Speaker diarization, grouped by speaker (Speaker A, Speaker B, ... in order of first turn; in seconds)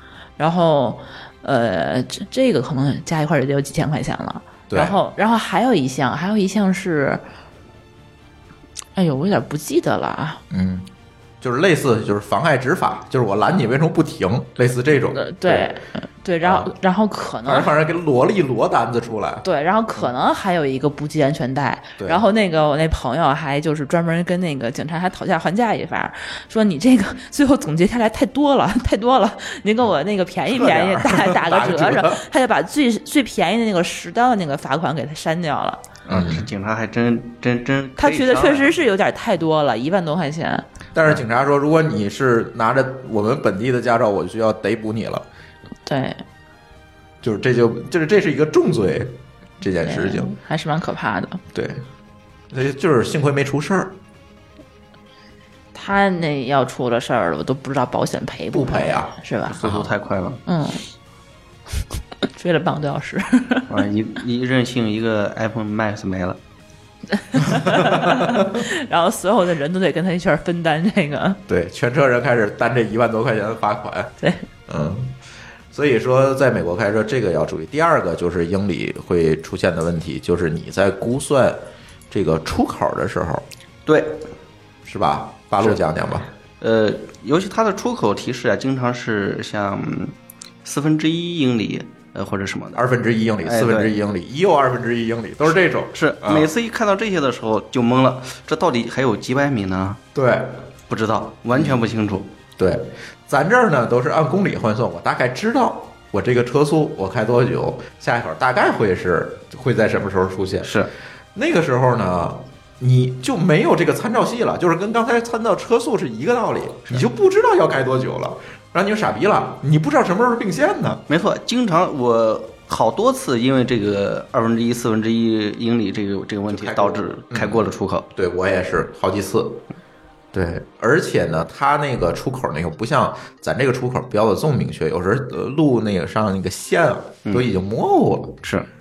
Speaker A: 0.4-7.2, 9.0-10.4, 15.1-17.7, 19.4-35.8, 38.0-40.6, 45.9-46.2, 49.8-51.4, 55.7-59.6, 60.5-60.8, 62.3-63.7, 67.1-71.4
Speaker B: 4.7-5.0, 10.5-10.9, 11.4-15.8, 16.4-16.7, 17.4-19.4, 22.0-22.2, 30.5-32.2, 36.1-36.5, 41.0-45.3, 47.2-50.3, 51.5-51.9, 52.5-54.0, 58.5-59.9, 67.6-68.6, 71.5-74.2, 74.7-75.2, 75.7-83.5, 84.9-86.3, 92.7-96.5, 100.2-100.6, 102.6-110.7, 111.3-121.0, 126.5-129.6, 130.3-138.4
Speaker C: 36.1-38.7, 59.5-60.4, 63.7-66.4, 83.9-84.3, 86.6-92.8, 93.4-93.9, 96.0-100.0, 100.9-102.3, 110.6-110.9, 121.1-128.1